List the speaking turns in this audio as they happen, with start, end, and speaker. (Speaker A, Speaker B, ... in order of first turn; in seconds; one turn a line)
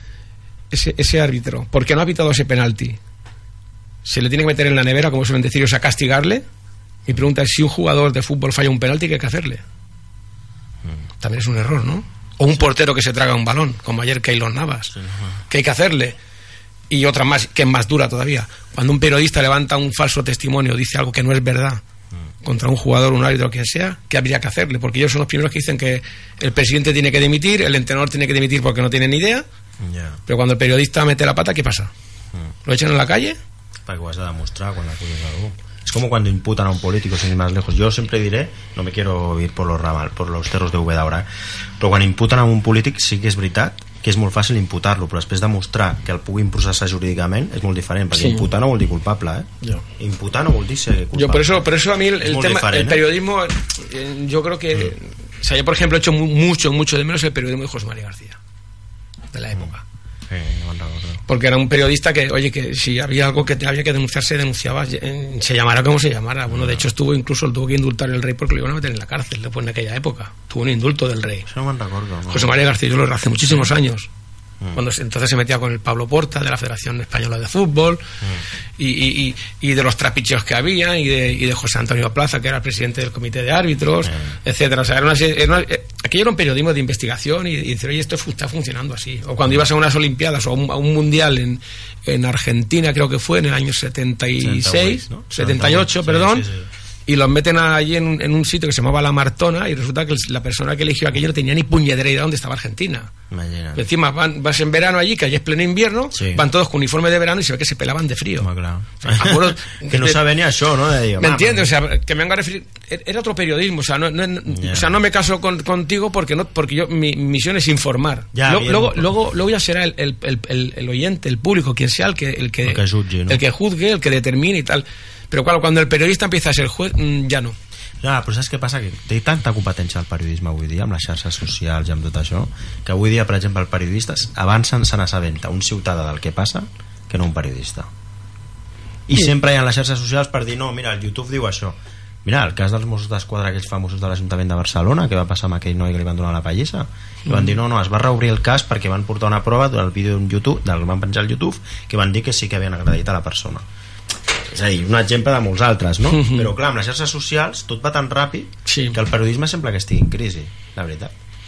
Speaker A: 0.7-3.0
Speaker A: 4.0-6.4
Speaker A: 7.0-9.6
Speaker A: 11.2-14.9
Speaker B: 14.9-15.4
Speaker A: 15.5-16.1
Speaker A: 16.9-21.8
Speaker A: 22.4-29.4
Speaker B: 29.8-30.2
Speaker A: 30.3-31.9
Speaker A: 32.6-33.4
Speaker B: 33.9-41.3
Speaker B: 41.8-51.7
Speaker A: 48.1-48.5
Speaker A: 51.1-58.4
Speaker B: 52.2-53.0
Speaker A: 59.3-59.8
Speaker B: 60.3-61.2
Speaker A: 61.3-71.5
Speaker B: 66.5-66.9
Speaker B: 71.5-72.5
Speaker A: 72.3-74.1
Speaker B: 73.4-73.7
Speaker A: 74.7-78.0
Speaker A: 78.8-96.5
Speaker B: 84.0-84.3
Speaker B: 94.4-96.7
Speaker A: 97.0-103.1
Speaker B: 103.3-103.8
Speaker A: 103.8-108.5
Speaker B: 106.1-106.5
Speaker B: 108.4-111.7
Speaker A: 109.0-110.2
Speaker A: 111.2-127.5
Speaker B: 114.5-115.0
Speaker B: 118.3-119.1
Speaker B: 122.6-123.4
Speaker B: 128.0-137.9
Speaker B: 139.1-153.7
Speaker A: 147.3-147.5
Speaker B: 154.4-161.1
Speaker A: 156.1-156.5
Speaker A: 158.7-159.0